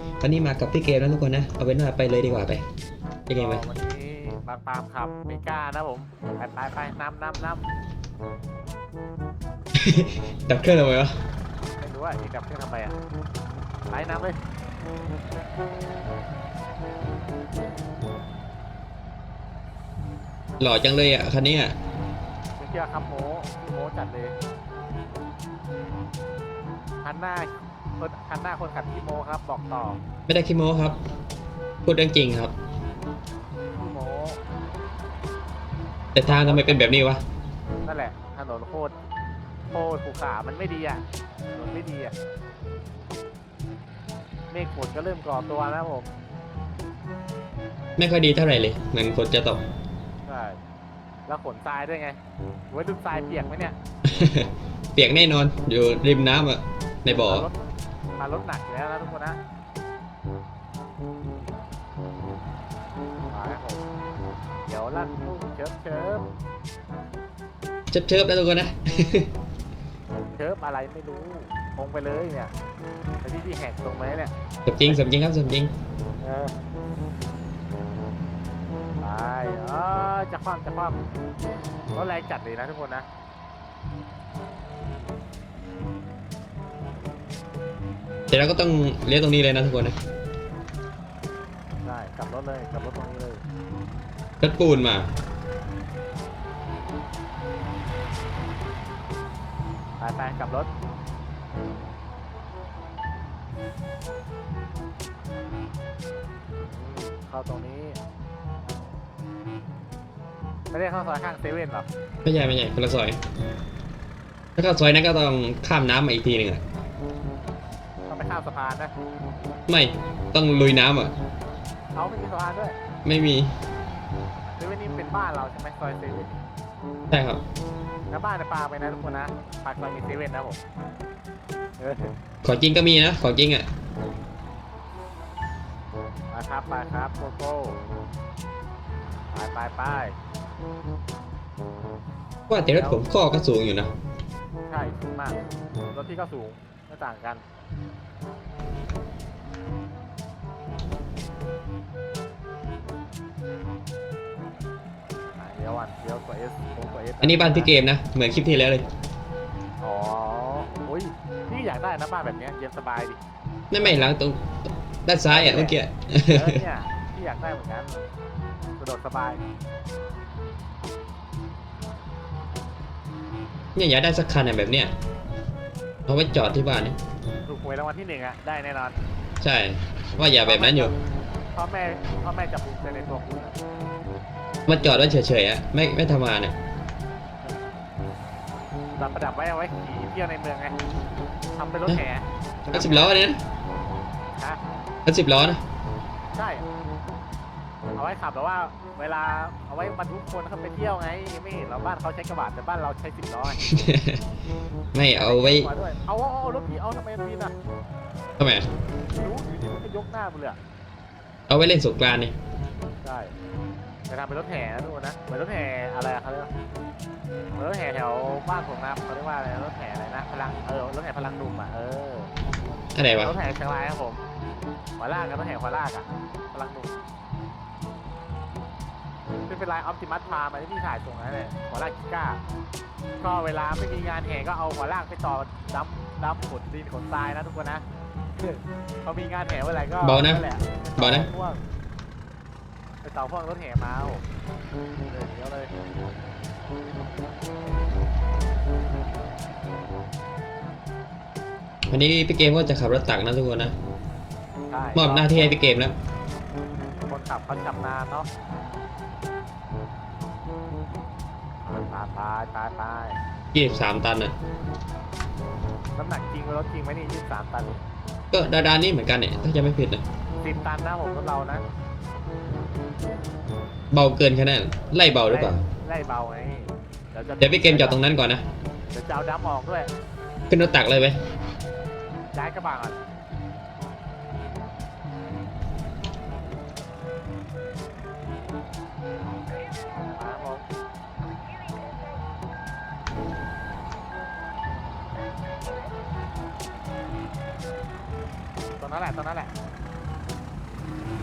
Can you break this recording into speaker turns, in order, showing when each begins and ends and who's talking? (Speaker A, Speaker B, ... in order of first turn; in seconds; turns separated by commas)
Speaker A: 0.2-2.6, Speaker A: 3.3-3.6, Speaker B: 3.3-7.7, Speaker A: 9.8-11.1, Speaker B: 11.8-13.0, Speaker B: 13.9-14.4, Speaker A: 20.6-21.8, Speaker B: 22.6-24.4, Speaker B: 27.0-30.0, Speaker A: 30.3-31.0, Speaker A: 31.9-32.5, Speaker B: 33.8-34.4, Speaker A: 36.1-37.2, Speaker B: 36.3-37.0, Speaker B: 37.9-39.0, Speaker B: 39.7-42.1, Speaker B: 44.5-46.1, Speaker A: 48.0-49.6, Speaker B: 50.3-50.6, Speaker B: 51.3-52.2, Speaker B: 52.7-53.8, Speaker A: 54.0-57.5, Speaker B: 57.1-57.5, Speaker B: 58.2-59.4, Speaker B: 63.3-63.8, Speaker B: 64.7-66.3, Speaker A: 67.9-69.3, Speaker B: 70.3-72.5, Speaker B: 73.2-75.0, Speaker A: 74.7-75.7, Speaker B: 76.2-76.5, Speaker B: 79.0-81.0, Speaker B: 82.0-83.1, Speaker A: 88.3-90.0, Speaker B: 91.8-93.4, Speaker A: 94.4-95.1, Speaker B: 100.0-100.7, Speaker B: 106.6-108.0, Speaker B: 110.7-111.9, Speaker A: 112.2-113.2, Speaker A: 114.6-116.6, Speaker B: 118.1-118.9, Speaker A: 119.7-121.1, Speaker B: 122.0-122.8, Speaker A: 123.0-123.5, Speaker B: 124.6-126.4, Speaker A: 127.1-127.4, Speaker B: 128.1-130.6, Speaker B: 131.8-132.1, Speaker A: 132.4-133.7, Speaker B: 136.3-137.8, Speaker B: 139.3-140.2, Speaker A: 142.5-143.9, Speaker B: 142.7-143.1, Speaker B: 144.7-145.4, Speaker B: 145.9-147.4, Speaker B: 155.4-157.8, Speaker A: 157.2-158.9, Speaker B: 159.8-163.2, Speaker A: 163.7-166.6, Speaker B: 163.8-164.0, Speaker B: 165.3-168.1, Speaker B: 168.8-169.4, Speaker A: 173.8-174.9, Speaker A: 176.1-177.0, Speaker B: 177.5-179.0, Speaker A: 179.4-180.9, Speaker B: 180.4-181.0, Speaker B: 181.6-183.6, Speaker A: 184.7-186.6, Speaker B: 189.0-190.8, Speaker B: 191.6-193.2, Speaker A: 192.7-193.4, Speaker B: 194.3-194.6, Speaker A: 195.1-195.6, Speaker B: 196.3-196.7, Speaker B: 198.0-203.6, Speaker A: 203.6-204.2, Speaker A: 204.9-205.7, Speaker B: 205.1-207.5, Speaker A: 208.4-208.7, Speaker B: 209.1-210.6, Speaker A: 211.5-212.3, Speaker B: 213.0-213.3, Speaker B: 214.1-216.5, Speaker B: 217.6-222.3, Speaker A: 222.9-223.3, Speaker B: 223.2-224.2, Speaker B: 225.0-227.0, Speaker B: 229.5-232.4, Speaker B: 233.2-237.8, Speaker B: 238.4-241.6, Speaker A: 240.0-240.4, Speaker A: 241.0-241.3, Speaker B: 243.0-244.2, Speaker B: 245.1-245.7, Speaker A: 251.9-253.7, Speaker B: 254.7-255.6, Speaker A: 254.9-255.9, Speaker B: 257.1-258.3, Speaker B: 261.7-263.2, Speaker A: 263.5-264.4, Speaker B: 265.9-267.8, Speaker A: 268.3-270.0, Speaker B: 270.4-271.6, Speaker A: 273.9-275.6, Speaker B: 275.3-278.0, Speaker A: 277.4-278.4, Speaker B: 278.9-279.9, Speaker A: 280.5-281.2, Speaker B: 282.3-283.0, Speaker B: 290.1-290.6, Speaker B: 298.8-299.5